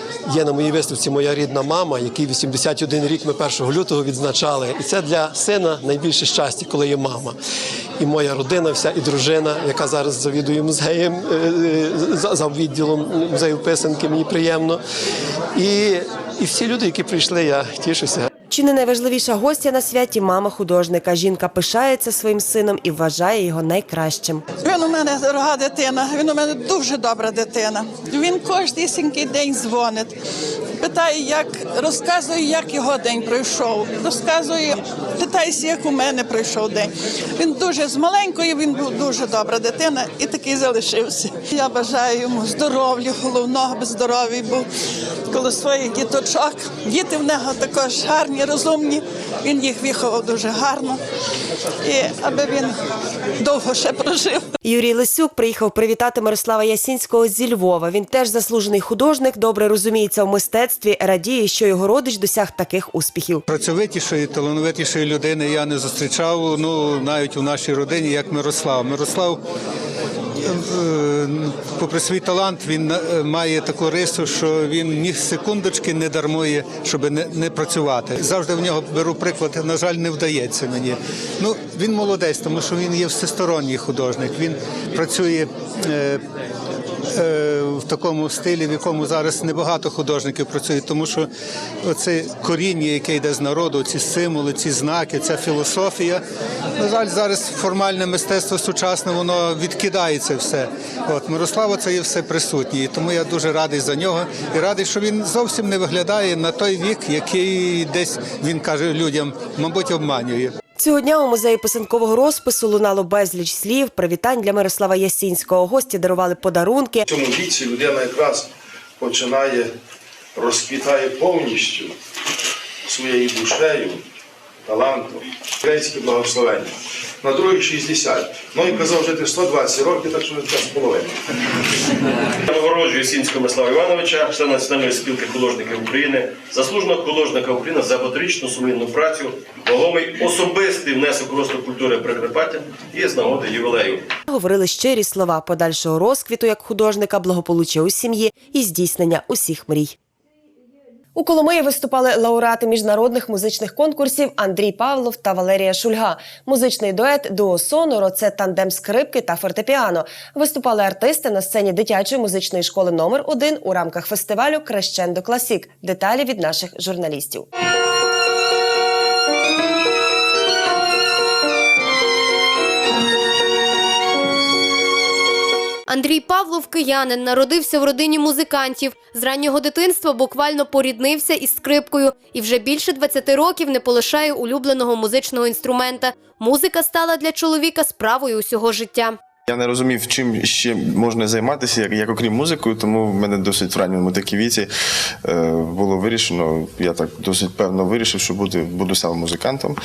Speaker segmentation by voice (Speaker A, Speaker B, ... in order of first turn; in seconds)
Speaker A: 0.3-7.4, 8.0-14.8, 15.5-18.3
Speaker B: 18.5-24.4, 54.6-63.5, 110.8-117.1, 144.3-149.9, 151.2-167.5
Speaker C: 24.6-30.2, 30.8-44.7, 45.3-51.0, 51.8-52.8, 53.4-54.5
Speaker D: 63.5-69.4, 70.4-86.2, 87.1-91.3, 91.8-96.2, 96.8-110.5
Speaker E: 117.1-119.7, 120.3-121.9, 122.8-124.0, 124.7-131.2
Speaker F: 132.4-144.1
Speaker G: 175.9-189.2
Speaker H: 189.5-194.7, 195.2-199.8